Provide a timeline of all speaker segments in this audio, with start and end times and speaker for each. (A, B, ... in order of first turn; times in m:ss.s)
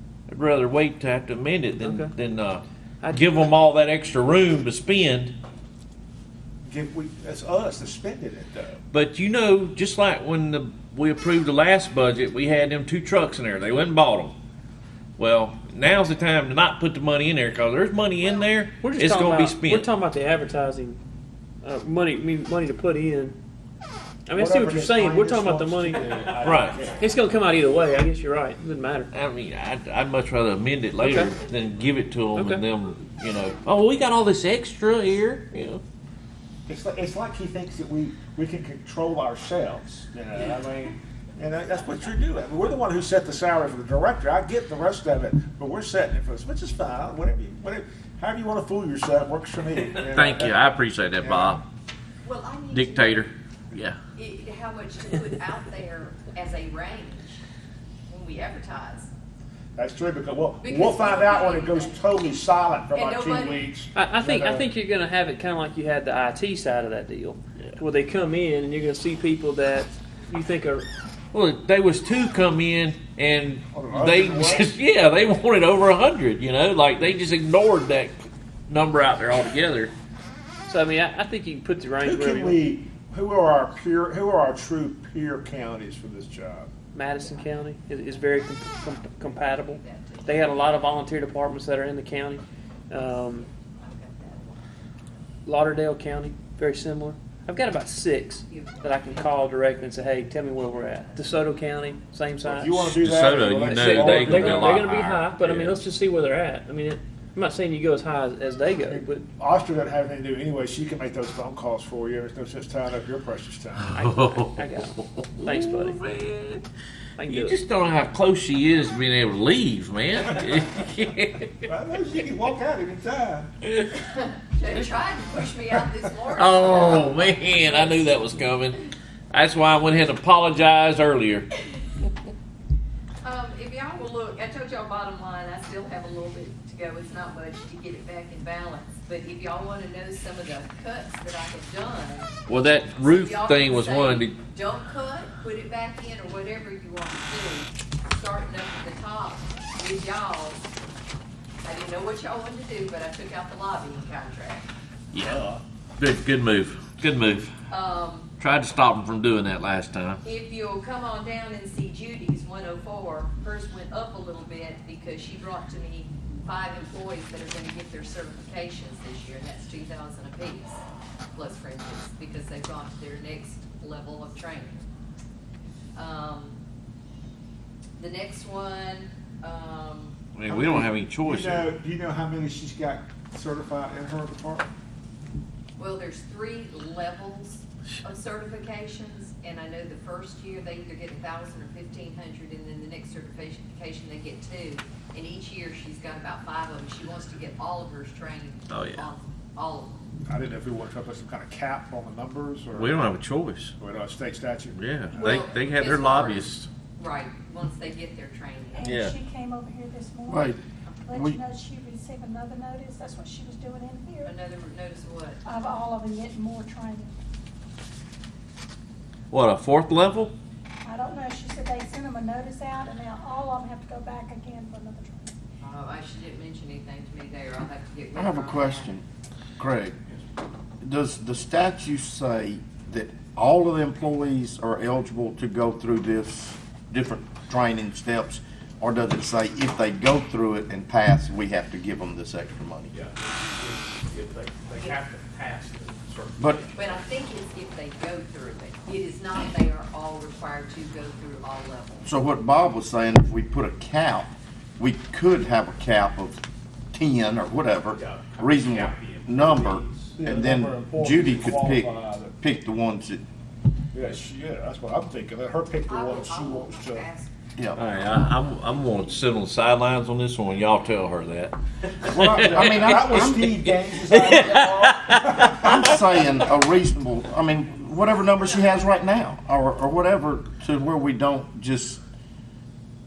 0:00.3-0:05.4 A
0:01.8-0:02.1 B
0:03.0-0:03.5 B
0:06.6-0:08.8 C
0:08.9-0:14.4 A
0:15.2-0:19.9 A
0:18.8-0:21.0 B
0:21.6-0:23.4 B
0:24.3-0:26.4 B
0:24.4-0:27.1 C
0:26.4-0:26.8 A
0:27.0-0:29.1 B
0:29.1-0:35.8 A
0:31.0-0:31.3 B
0:32.4-0:32.6 B
0:36.7-0:51.6 C
0:50.0-0:51.6 A
0:52.2-0:53.3 D
0:52.7-0:54.0 A
0:54.2-0:57.4 D
0:58.1-0:59.1 D
0:59.8-1:04.7 C
1:00.6-1:02.0 D
1:02.9-1:03.7 D
1:04.0-1:10.9 B
1:11.3-1:19.9 A
1:13.7-1:14.7 C
1:20.7-1:22.6 B
1:22.0-1:26.7 C
1:26.9-1:33.5 B
1:27.3-1:27.6 D
1:29.2-1:30.8 D
1:32.9-1:34.6 D
1:35.5-1:42.8 B
1:38.5-1:39.2 D
1:42.4-1:44.8 C
1:42.8-1:45.8 A
1:43.6-1:49.2 B
1:48.8-1:53.9 C
1:53.8-1:56.6 A
1:54.0-1:56.0 B
1:57.2-1:57.6 B
1:57.2-2:01.6 A
2:01.7-2:03.5 C
2:03.6-2:04.0 A
2:04.1-2:08.1 D
2:06.3-2:11.5 A
2:13.2-2:22.3 D
2:22.5-2:24.4 A
2:23.0-2:30.7 D
2:31.6-2:34.7 D
2:35.1-2:35.4 A
2:35.2-2:35.6 C
2:36.0-2:37.5 A
2:37.7-2:38.3 D
2:38.4-2:40.2 A
2:40.2-2:54.9 D
2:56.0-2:56.6 D
2:58.0-3:00.2 D
3:00.4-3:01.7 A
3:00.5-3:04.7 C
3:05.8-3:20.0 D
3:18.7-3:19.1 A
3:20.2-3:23.1 C
3:22.7-3:23.7 A
3:23.8-3:24.8 C
3:24.7-3:26.7 A
3:25.1-3:28.9 D
3:28.7-3:30.6 E
3:28.8-3:29.2 A
3:30.3-3:30.6 F
3:31.1-3:34.4 E
3:31.1-3:31.4 F
3:34.2-3:35.4 D
3:35.4-3:37.2 E
3:39.3-3:40.3 A
3:40.8-3:45.3 E
3:45.6-3:48.9 D
3:48.2-3:49.0 F
3:49.6-3:50.0 F
3:50.8-4:02.9 F
4:02.9-4:07.0 G
4:04.7-4:05.0 D
4:06.4-4:06.7 F
4:06.7-4:12.1 D
4:12.0-4:23.2 F
4:17.9-4:19.0 G
4:18.1-4:22.3 C
4:23.9-4:27.1 C
4:25.9-4:27.3 D
4:27.6-4:27.8 F
4:27.8-4:36.3 A
4:32.0-4:33.5 F
4:32.4-4:35.5 C
4:35.4-4:42.0 F